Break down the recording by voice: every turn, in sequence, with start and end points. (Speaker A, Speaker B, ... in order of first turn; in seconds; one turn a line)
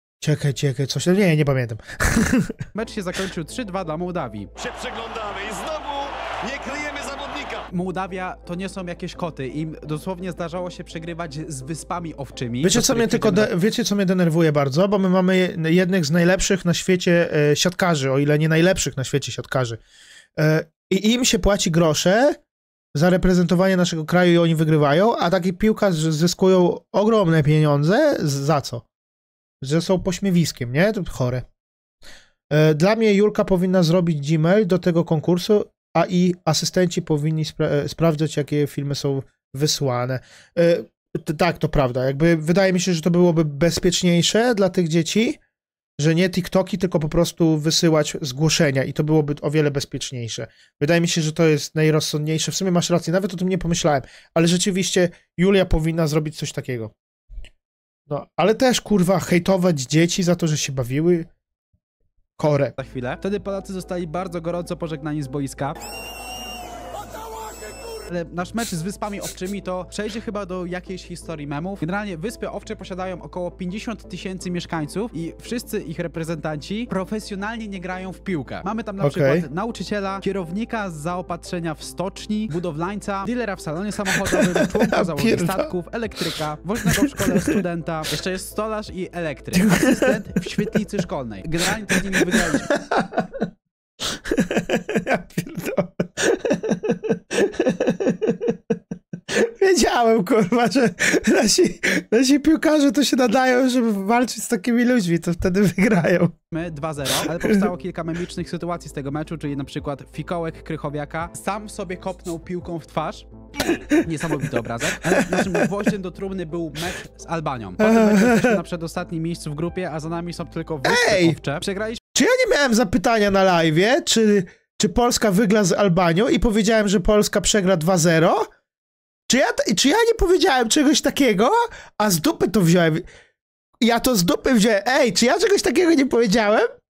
Speaker A: 0.2-2.6
Speaker B: 2.7-4.5
Speaker C: 4.6-7.7
Speaker B: 7.7-13.5
Speaker A: 12.6-19.8
Speaker A: 20.4-22.4
Speaker A: 22.9-28.8
Speaker A: 29.6-31.4
Speaker A: 32.5-45.4
Speaker A: 46.0-56.9
Speaker A: 58.1-61.3
Speaker A: 62.4-62.8
Speaker B: 62.8-65.8
Speaker B: 68.1-92.7
Speaker A: 79.0-79.5
Speaker A: 84.3-85.7
Speaker A: 86.9-87.6
Speaker A: 89.5-90.5
Speaker A: 91.9-93.5
Speaker A: 94.1-98.8
Speaker A: 99.3-106.3
Speaker B: 106.5-113.3
Speaker A: 107.2-107.6
Speaker B: 114.0-122.0
Speaker A: 115.1-115.7
Speaker A: 117.8-118.6
Speaker A: 120.8-121.4
Speaker A: 122.2-128.5
Speaker A: 129.3-133.1
Speaker A: 133.8-136.7